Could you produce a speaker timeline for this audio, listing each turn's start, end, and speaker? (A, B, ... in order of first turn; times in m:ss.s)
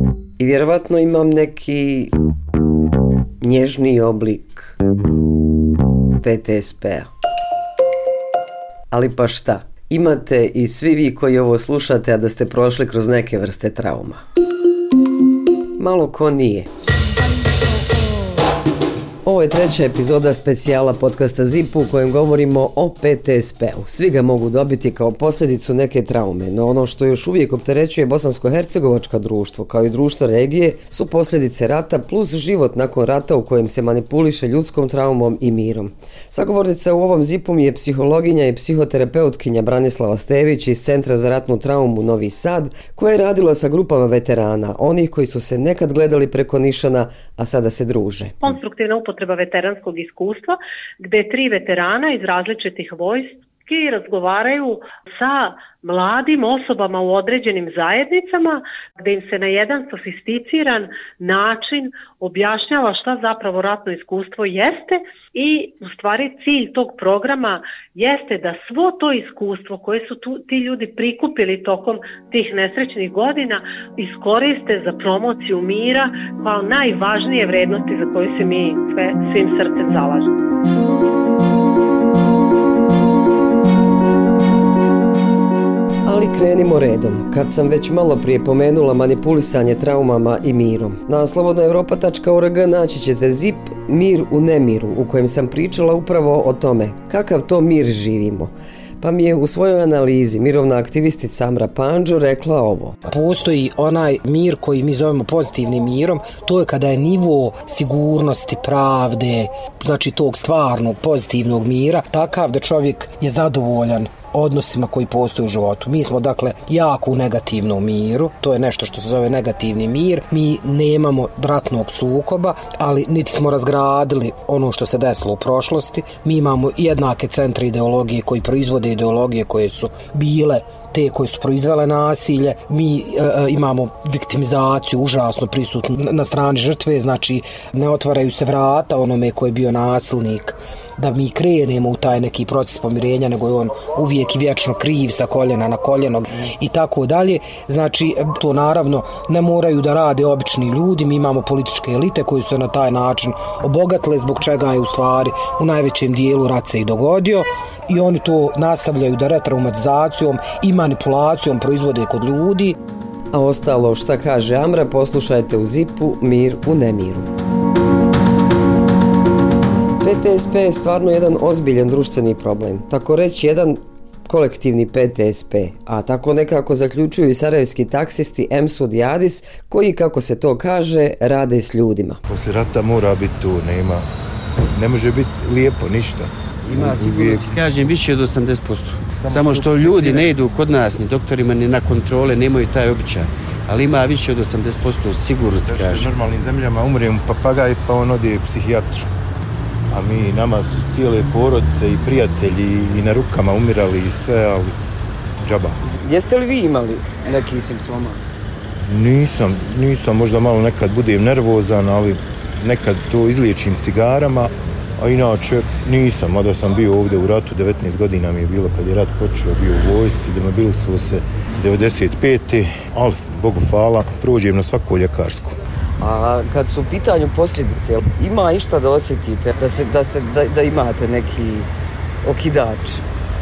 0:00.4-0:02.1 A
0:03.4-0:04.8 A
0:06.2-0:07.1 A
0:08.9-0:14.2 A
0:15.8-0:16.7 A
0:19.2-0:48.4 A
0:48.4-1:20.3 B
1:26.1-1:43.0 A
1:43.1-2:42.8 C
2:43.3-2:47.3 A
2:50.0-3:02.2 A
3:02.3-3:04.0 D
3:04.8-3:07.6 D
3:06.7-3:16.1 E
3:09.2-3:10.3 D
3:15.6-3:19.1 D
3:19.9-3:24.8 D
3:25.4-3:25.8 D
3:26.0-3:28.2 A
3:28.9-3:45.6 D
3:46.0-3:51.7 A
3:52.2-3:53.0 A